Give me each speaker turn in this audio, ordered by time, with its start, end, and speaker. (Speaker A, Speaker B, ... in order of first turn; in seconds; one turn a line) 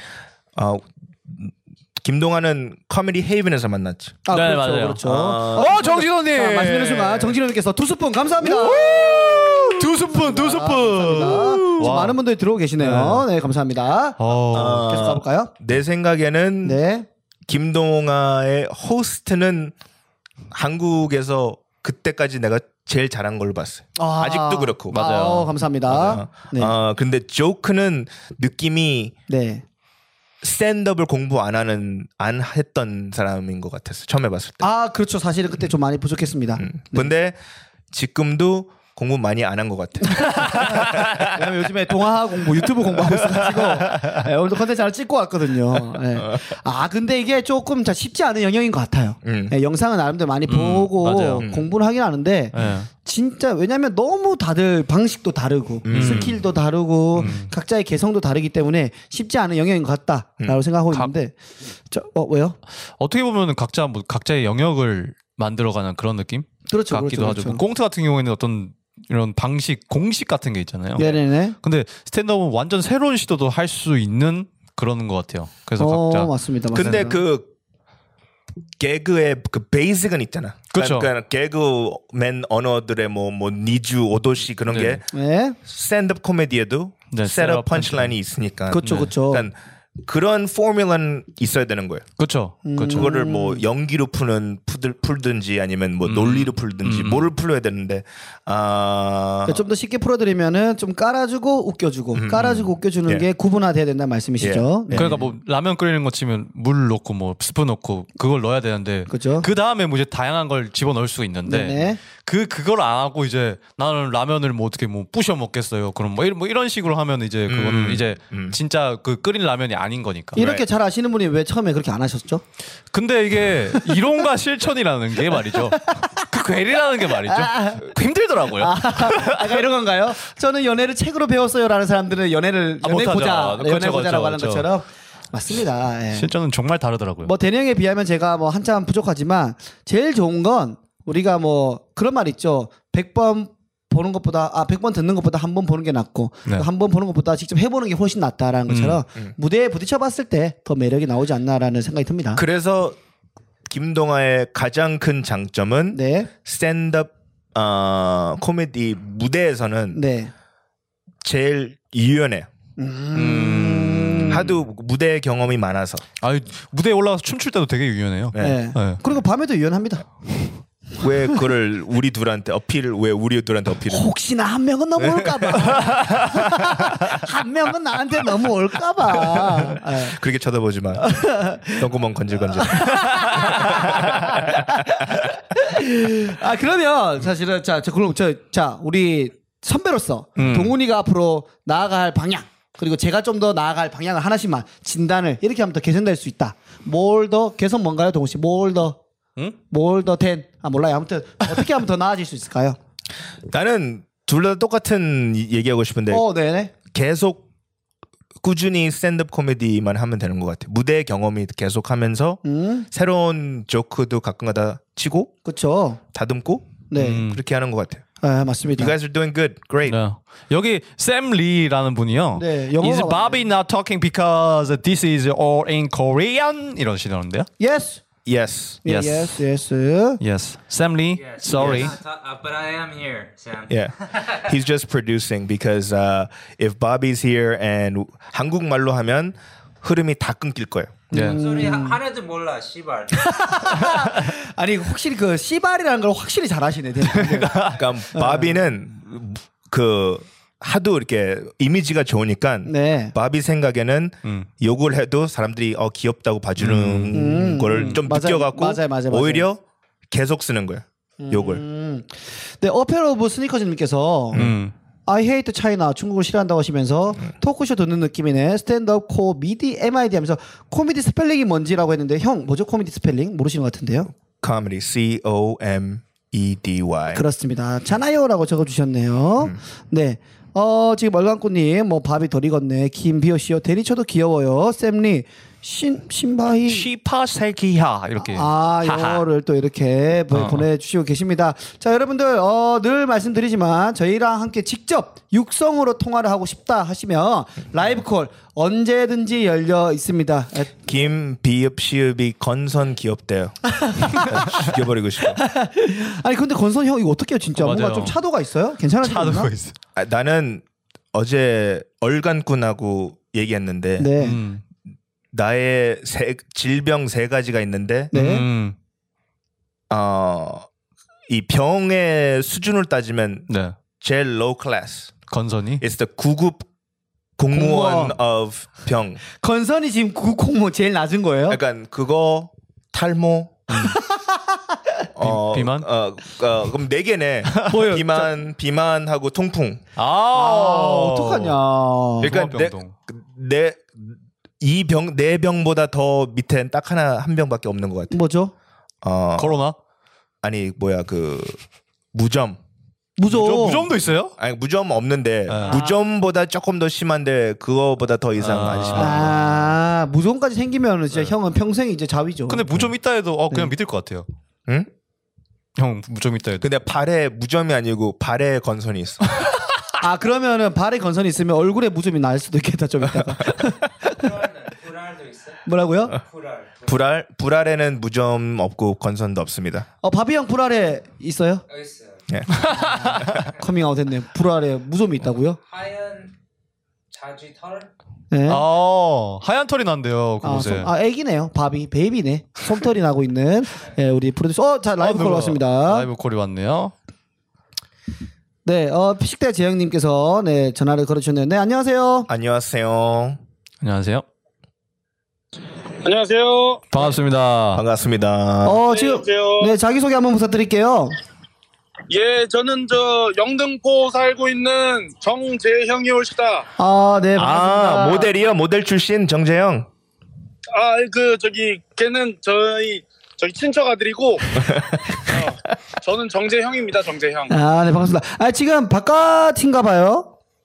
Speaker A: 0.6-4.2
Speaker B: 4.2-15.5
Speaker C: 4.3-5.0
Speaker A: 5.0-5.8
Speaker C: 5.5-7.4
Speaker C: 8.4-12.2
Speaker C: 12.8-13.2
Speaker C: 14.2-14.8
Speaker A: 14.5-16.8
Speaker B: 16.6-17.1
Speaker A: 17.5-19.7
Speaker A: 20.5-25.0
Speaker B: 24.0-26.7
Speaker C: 24.9-25.5
Speaker A: 25.9-29.1
Speaker B: 29.3-29.6
Speaker A: 30.4-34.7
Speaker B: 34.6-37.1
Speaker A: 36.6-37.4
Speaker A: 37.9-41.2
Speaker B: 40.3-61.3
Speaker A: 49.2-49.5
Speaker C: 50.5-51.5
Speaker A: 51.4-51.7
Speaker C: 52.5-52.9
Speaker A: 55.8-56.4
Speaker C: 55.9-56.4
Speaker C: 57.1-57.5
Speaker B: 61.9-62.6
Speaker C: 63.0-76.3
Speaker B: 66.7-67.6
Speaker B: 71.0-71.5
Speaker B: 75.8-77.2
Speaker A: 76.7-77.5
Speaker A: 78.8-85.0
Speaker C: 80.7-81.1
Speaker C: 84.7-85.0
Speaker B: 85.1-85.5
Speaker A: 85.6-92.0
Speaker C: 87.1-88.1
Speaker B: 88.7-89.5
Speaker C: 88.8-89.1
Speaker C: 92.2-93.1
Speaker B: 92.6-93.6
Speaker A: 92.9-99.6
Speaker C: 96.0-97.3
Speaker B: 99.5-105.3
Speaker A: 102.1-103.3
Speaker A: 104.4-105.2
Speaker C: 104.9-120.4
Speaker B: 109.1-109.5
Speaker B: 111.5-112.0
Speaker A: 117.5-118.6
Speaker A: 120.3-120.6
Speaker B: 120.3-122.4
Speaker C: 122.9-129.6
Speaker B: 127.3-127.9
Speaker B: 128.6-136.3
Speaker C: 132.8-134.7
Speaker C: 136.1-137.3
Speaker B: 137.2-152.4
Speaker C: 148.7-149.0
Speaker A: 152.3-153.0
Speaker A: 153.7-160.0
Speaker B: 155.9-156.3
Speaker B: 159.9-160.3
Speaker A: 161.2-162.5
Speaker B: 162.8-164.4
Speaker C: 163.1-164.5
Speaker A: 164.3-166.0
Speaker C: 166.2-169.0
Speaker B: 168.4-170.0
Speaker A: 171.0-174.1
Speaker B: 173.9-180.2
Speaker A: 175.0-176.3
Speaker A: 179.6-185.0
Speaker B: 181.0-181.9
Speaker B: 182.5-199.0
Speaker C: 190.4-190.7
Speaker B: 199.7-202.8
Speaker A: 203.5-206.2
Speaker B: 206.1-206.7
Speaker A: 206.9-207.4
Speaker A: 208.4-215.3
Speaker B: 212.4-212.9
Speaker B: 215.4-216.0
Speaker A: 216.1-218.0
Speaker B: 216.9-217.2
Speaker C: 217.0-217.4
Speaker B: 218.2-218.9
Speaker A: 218.8-220.0
Speaker C: 219.8-227.5
Speaker B: 222.3-223.4
Speaker B: 227.6-228.0
Speaker A: 228.2-228.8
Speaker B: 228.8-230.2
Speaker C: 228.8-229.4
Speaker C: 230.2-232.0
Speaker D: 231.1-234.5
Speaker A: 231.6-231.8
Speaker A: 233.7-241.1
Speaker B: 241.1-242.0
Speaker C: 241.1-241.4
Speaker D: 241.3-243.2
Speaker B: 243.1-248.6
Speaker C: 247.1-247.8
Speaker A: 247.7-261.6
Speaker B: 252.7-253.1
Speaker C: 256.6-257.1
Speaker B: 257.1-259.5
Speaker B: 261.2-264.4
Speaker A: 264.3-264.6
Speaker C: 264.3-264.7
Speaker B: 265.1-274.1
Speaker A: 274.4-277.2
Speaker B: 277.1-286.9
Speaker C: 286.7-289.2
Speaker B: 288.2-300.7
Speaker C: 290.3-290.6
Speaker A: 300.8-305.4
Speaker B: 303.8-304.3
Speaker B: 305.3-309.5
Speaker C: 307.6-308.2
Speaker C: 309.0-309.7
Speaker A: 309.9-314.1
Speaker B: 314.0-314.4
Speaker C: 314.2-314.6
Speaker A: 315.3-318.1
Speaker B: 318.1-318.4
Speaker C: 318.1-318.8
Speaker A: 319.9-320.6
Speaker A: 321.3-323.5
Speaker C: 323.5-323.7
Speaker A: 324.0-325.1
Speaker C: 325.3-325.8
Speaker A: 325.8-326.6
Speaker A: 327.4-329.2
Speaker B: 327.5-328.2
Speaker B: 329.4-331.6
Speaker A: 331.5-333.9
Speaker B: 334.1-334.4
Speaker A: 335.1-339.8
Speaker C: 335.2-335.9
Speaker B: 337.7-338.3
Speaker C: 339.9-341.6
Speaker B: 340.3-342.3
Speaker A: 342.2-348.1
Speaker C: 342.2-342.9
Speaker B: 348.1-348.5
Speaker A: 349.0-349.6
Speaker C: 349.4-349.8
Speaker A: 350.4-351.6
Speaker A: 352.1-352.6
Speaker B: 353.2-353.9
Speaker C: 353.3-354.3
Speaker A: 354.4-359.3
Speaker C: 355.5-355.8
Speaker C: 358.4-359.6
Speaker B: 358.9-362.7
Speaker C: 362.5-364.2
Speaker C: 365.8-366.7
Speaker A: 366.6-369.2
Speaker B: 370.0-373.8
Speaker D: 374.0-377.1
Speaker B: 375.6-376.2
Speaker A: 376.8-379.9
Speaker B: 380.0-381.6
Speaker D: 381.7-382.3
Speaker A: 382.3-383.3
Speaker C: 382.5-382.9
Speaker B: 382.8-385.6
Speaker D: 385.6-386.3
Speaker D: 387.1-387.9
Speaker B: 388.3-388.6
Speaker C: 388.5-390.9
Speaker B: 390.4-396.1
Speaker C: 395.0-396.9
Speaker B: 398.6-402.3
Speaker A: 402.3-403.4
Speaker C: 403.8-404.2
Speaker E: 406.0-406.8
Speaker C: 406.9-407.8
Speaker A: 407.7-408.8
Speaker B: 408.6-411.2
Speaker E: 408.8-409.8
Speaker E: 412.1-416.7
Speaker B: 416.8-418.3
Speaker A: 417.4-419.9
Speaker E: 420.7-424.6
Speaker E: 425.2-427.5
Speaker B: 427.5-430.3